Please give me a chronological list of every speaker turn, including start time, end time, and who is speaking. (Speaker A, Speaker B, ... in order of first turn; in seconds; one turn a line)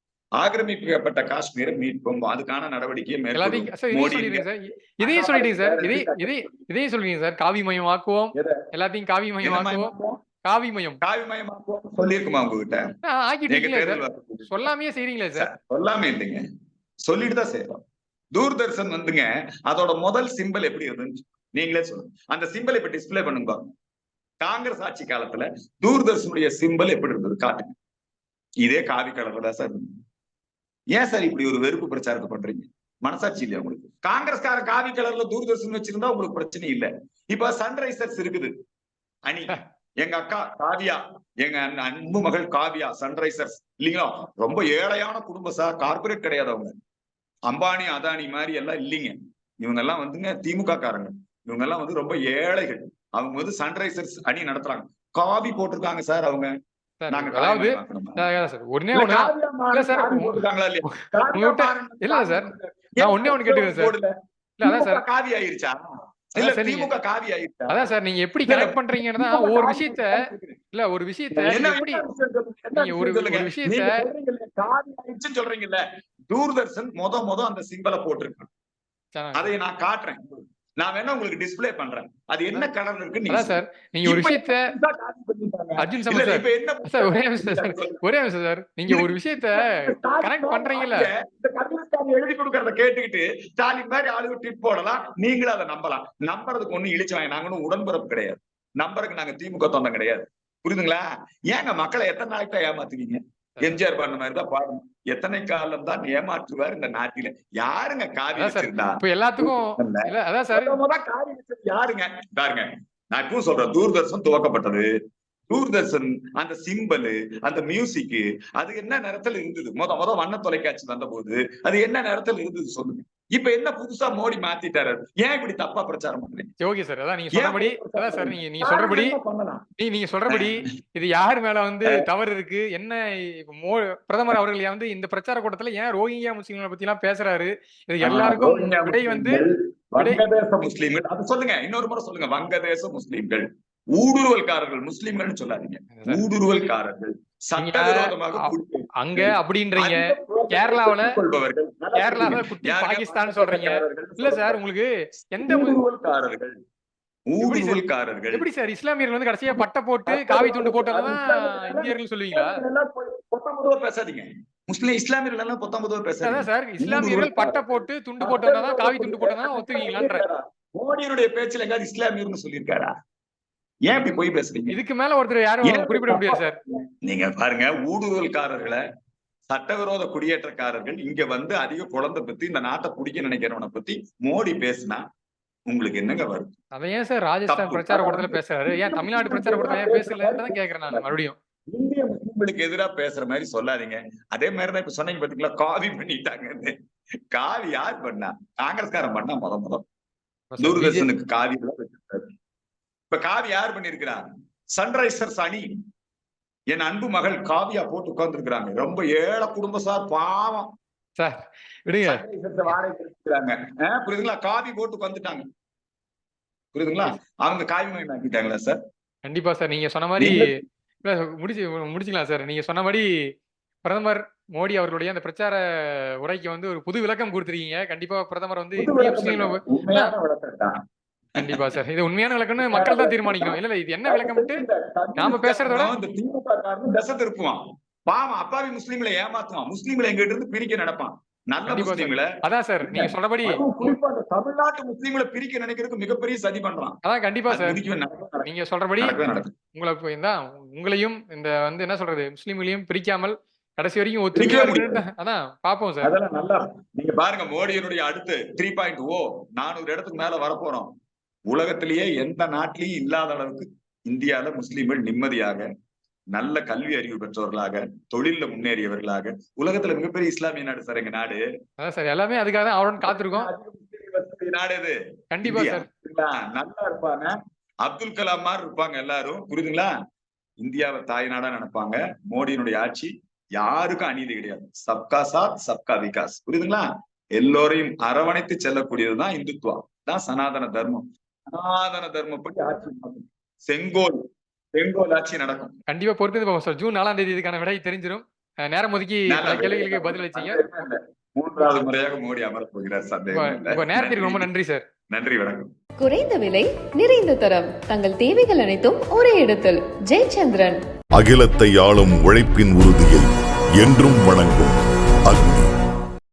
Speaker A: 0.4-4.5
Speaker B: 3.4-9.9
Speaker A: 5.0-6.6
Speaker A: 8.3-8.6
Speaker A: 9.4-10.2
Speaker B: 10.4-11.0
Speaker A: 11.0-12.8
Speaker B: 13.1-15.5
Speaker A: 13.5-14.7
Speaker A: 15.3-16.4
Speaker A: 17.0-17.8
Speaker A: 18.4-23.7
Speaker A: 24.4-27.8
Speaker A: 28.6-29.9
Speaker A: 30.9-38.5
Speaker A: 39.2-46.7
Speaker A: 47.5-56.5
Speaker B: 57.0-63.9
Speaker A: 57.1-58.2
Speaker A: 58.9-64.1
Speaker B: 64.6-65.0
Speaker A: 64.6-65.8
Speaker A: 66.3-67.9
Speaker B: 66.4-66.9
Speaker B: 67.7-70.2
Speaker A: 68.5-70.6
Speaker B: 70.7-72.0
Speaker A: 71.3-78.5
Speaker B: 72.7-74.0
Speaker B: 79.1-79.5
Speaker A: 79.3-80.2
Speaker A: 80.8-88.0
Speaker B: 83.3-84.7
Speaker B: 85.8-91.1
Speaker A: 88.9-114.9
Speaker B: 108.3-110.7
Speaker A: 115.5-126.5
Speaker B: 126.6-129.2
Speaker A: 127.3-129.6
Speaker B: 129.8-139.4
Speaker A: 138.0-154.6
Speaker B: 145.9-146.2
Speaker B: 147.6-151.2
Speaker B: 151.9-155.8
Speaker A: 155.4-156.5
Speaker A: 157.3-158.4
Speaker B: 157.4-162.6
Speaker A: 160.1-172.9
Speaker B: 166.2-170.2
Speaker A: 173.9-174.8
Speaker B: 174.7-176.6
Speaker A: 175.6-178.8
Speaker A: 179.5-185.0
Speaker A: 185.7-186.5
Speaker B: 186.7-191.4
Speaker A: 187.5-191.1
Speaker A: 191.7-196.7
Speaker A: 197.3-199.9
Speaker B: 200.5-201.1
Speaker A: 200.6-202.3
Speaker A: 203.1-204.2
Speaker A: 204.8-205.7
Speaker A: 206.7-210.7
Speaker B: 211.2-212.2
Speaker A: 212.1-215.4
Speaker A: 216.7-218.8
Speaker B: 219.2-220.4
Speaker A: 220.2-220.5
Speaker B: 221.0-223.1
Speaker B: 223.8-230.1
Speaker A: 228.8-230.8
Speaker B: 231.4-234.6
Speaker A: 232.7-247.0
Speaker B: 235.2-235.9
Speaker B: 241.7-243.9
Speaker B: 247.0-247.8
Speaker A: 247.5-248.5
Speaker B: 248.4-249.1
Speaker A: 249.0-249.5
Speaker B: 249.7-256.1
Speaker A: 254.3-255.0
Speaker A: 256.0-260.9
Speaker A: 261.5-265.7
Speaker A: 266.3-271.4
Speaker B: 271.8-273.5
Speaker A: 273.0-277.3
Speaker B: 275.3-275.9
Speaker A: 277.8-279.9
Speaker A: 280.6-294.2
Speaker A: 294.7-295.8
Speaker B: 295.9-300.6
Speaker A: 299.3-304.5
Speaker B: 303.3-304.9
Speaker A: 305.1-305.7
Speaker C: 306.0-310.8
Speaker D: 311.2-313.2
Speaker D: 313.8-315.7